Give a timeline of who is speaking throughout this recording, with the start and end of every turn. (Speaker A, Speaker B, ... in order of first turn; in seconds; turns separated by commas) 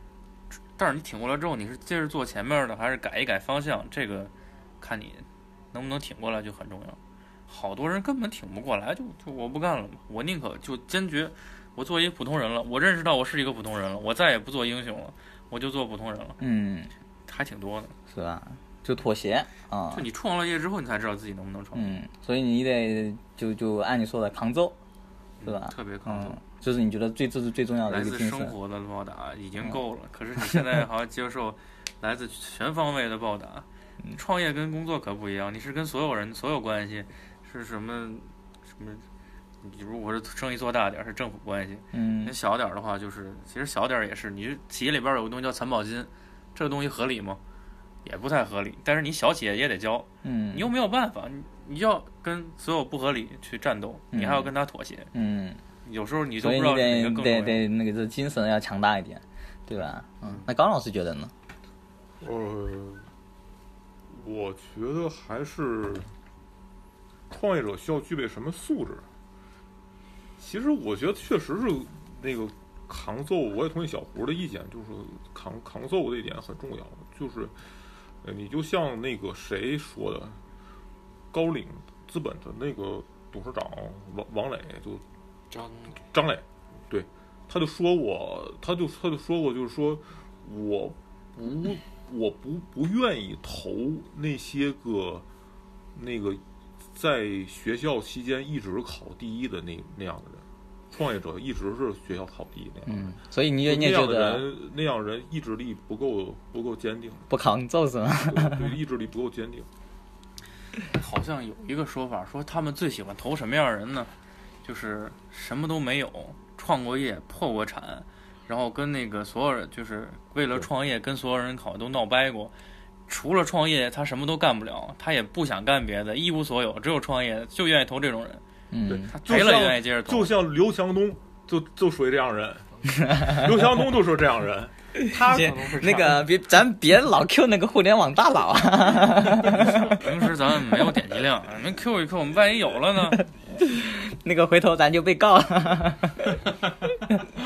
Speaker A: 0.7-16.4, Speaker B: 16.4-16.9, Speaker A: 17.3-17.9, Speaker B: 18.1-20.1, Speaker A: 19.9-22.0, Speaker B: 21.8-24.8, Speaker A: 25.4-26.4, Speaker B: 25.4-28.5, Speaker A: 27.9-39.1, Speaker A: 39.6-47.4, Speaker B: 41.9-42.4, Speaker A: 48.0-55.1, Speaker B: 50.2-50.7, Speaker B: 54.1-54.5, Speaker B: 55.1-55.6, Speaker A: 55.8-57.6, Speaker B: 56.4-61.3, Speaker C: 62.2-63.1, Speaker C: 64.1-66.1, Speaker C: 67.3-69.1, Speaker C: 70.4-77.5, Speaker C: 78.2-80.4, Speaker C: 81.3-85.0, Speaker A: 85.5-86.0, Speaker C: 86.0-95.2, Speaker C: 95.9-96.4, Speaker C: 97.0-107.3, Speaker B: 102.9-104.5, Speaker B: 107.3-108.8, Speaker C: 108.3-109.7, Speaker A: 110.8-114.1, Speaker A: 114.6-122.5, Speaker A: 123.1-128.4, Speaker B: 128.7-129.1, Speaker C: 128.9-136.1, Speaker A: 129.1-130.4, Speaker B: 133.0-133.4, Speaker B: 135.0-140.0, Speaker A: 135.3-136.2, Speaker A: 139.5-143.2, Speaker B: 143.4-146.5